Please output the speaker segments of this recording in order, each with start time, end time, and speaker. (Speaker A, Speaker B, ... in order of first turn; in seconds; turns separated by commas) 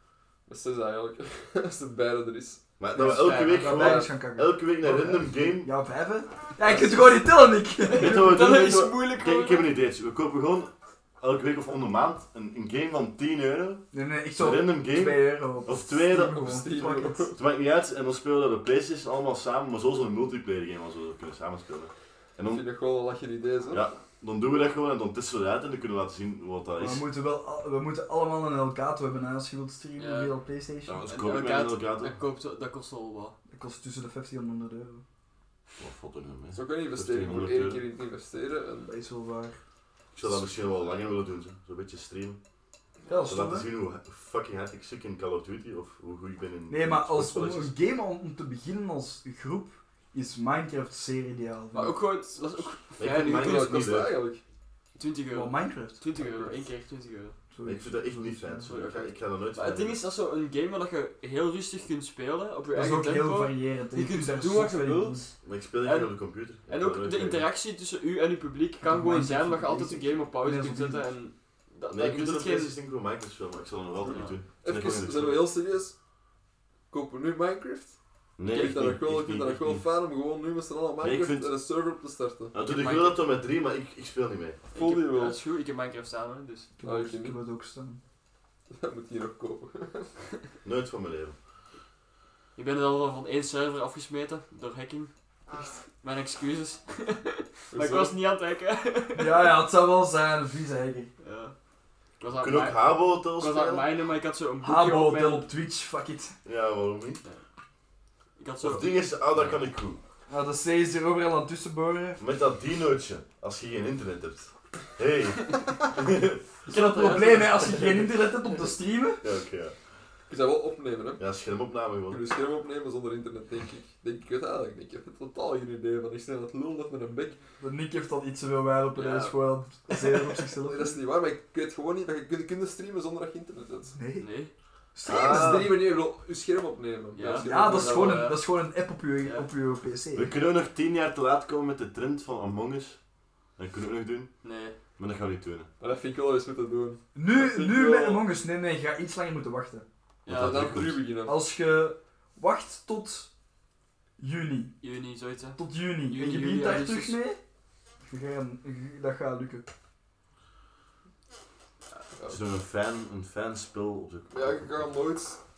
Speaker A: 0.5-4.1, Speaker B: 2.8-5.7, Speaker C: 3.0-8.4, Speaker D: 3.2-3.8, Speaker D: 7.8-9.7, Speaker B: 7.9-13.8, Speaker C: 13.9-17.3, Speaker B: 14.4-16.4, Speaker A: 16.1-17.4, Speaker B: 17.4-22.6, Speaker A: 22.5-23.9, Speaker B: 23.7-27.1, Speaker C: 26.8-31.0, Speaker D: 30.0-30.4, Speaker B: 30.9-32.2, Speaker D: 31.1-33.3, Speaker C: 33.5-35.0, Speaker B: 35.8-37.8, Speaker A: 36.5-38.9, Speaker C: 38.9-39.6, Speaker B: 40.1-42.4, Speaker C: 43.1-43.7, Speaker B: 43.3-47.8, Speaker C: 46.7-52.0, Speaker D: 51.7-54.0, Speaker A: 51.8-54.4, Speaker B: 53.0-54.1, Speaker D: 55.0-57.4, Speaker C: 55.3-56.0, Speaker A: 56.2-56.6, Speaker C: 57.5-59.1, Speaker B: 57.6-60.0, Speaker D: 59.5-66.2, Speaker C: 62.7-65.3, Speaker B: 65.4-67.4, Speaker D: 66.7-72.8, Speaker C: 68.8-71.1, Speaker B: 71.9-75.5, Speaker A: 74.0-75.9, Speaker D: 74.1-74.3, Speaker A: 76.9-82.5, Speaker B: 78.4-79.8, Speaker B: 81.0-81.5, Speaker B: 82.5-84.7, Speaker D: 82.6-83.2, Speaker A: 84.7-85.4, Speaker D: 84.8-86.7, Speaker C: 86.8-88.0, Speaker A: 86.8-87.4, Speaker A: 88.7-90.4, Speaker B: 90.6-91.3, Speaker D: 92.6-95.1, Speaker A: 95.5-95.8, Speaker D: 96.0-99.5, Speaker A: 97.7-98.1, Speaker C: 99.2-101.1, Speaker D: 101.2-101.5, Speaker D: 102.2-105.5, Speaker B: 102.4-103.9, Speaker C: 104.6-106.3, Speaker B: 106.4-107.2, Speaker D: 108.4-108.9, Speaker B: 108.6-110.0, Speaker C: 110.3-112.2, Speaker B: 112.2-116.4, Speaker D: 116.7-118.2, Speaker C: 116.7-119.3, Speaker B: 119.2-119.8, Speaker A: 120.3-121.2, Speaker B: 121.2-122.2, Speaker A: 122.1-127.4, Speaker C: 127.6-131.0, Speaker D: 129.0-129.3, Speaker A: 130.0-134.0, Speaker C: 134.0-134.3, Speaker D: 134.2-134.5, Speaker C: 134.9-135.7, Speaker B: 135.1-135.7, Speaker A: 135.1-138.3, Speaker D: 137.2-138.5, Speaker C: 137.4-140.3, Speaker B: 140.1-143.0, Speaker B: 143.6-144.3, Speaker D: 144.4-144.8, Speaker B: 145.0-145.7, Speaker A: 145.8-148.2, Speaker C: 147.2-149.8, Speaker B: 150.2-151.0, Speaker D: 150.3-150.8, Speaker A: 150.3-151.4, Speaker C: 151.3-153.3, Speaker C: 154.2-154.8, Speaker D: 154.8-157.2, Speaker C: 155.6-157.4, Speaker C: 158.0-159.7, Speaker A: 162.2-162.4, Speaker B: 162.3-164.9, Speaker A: 164.3-165.4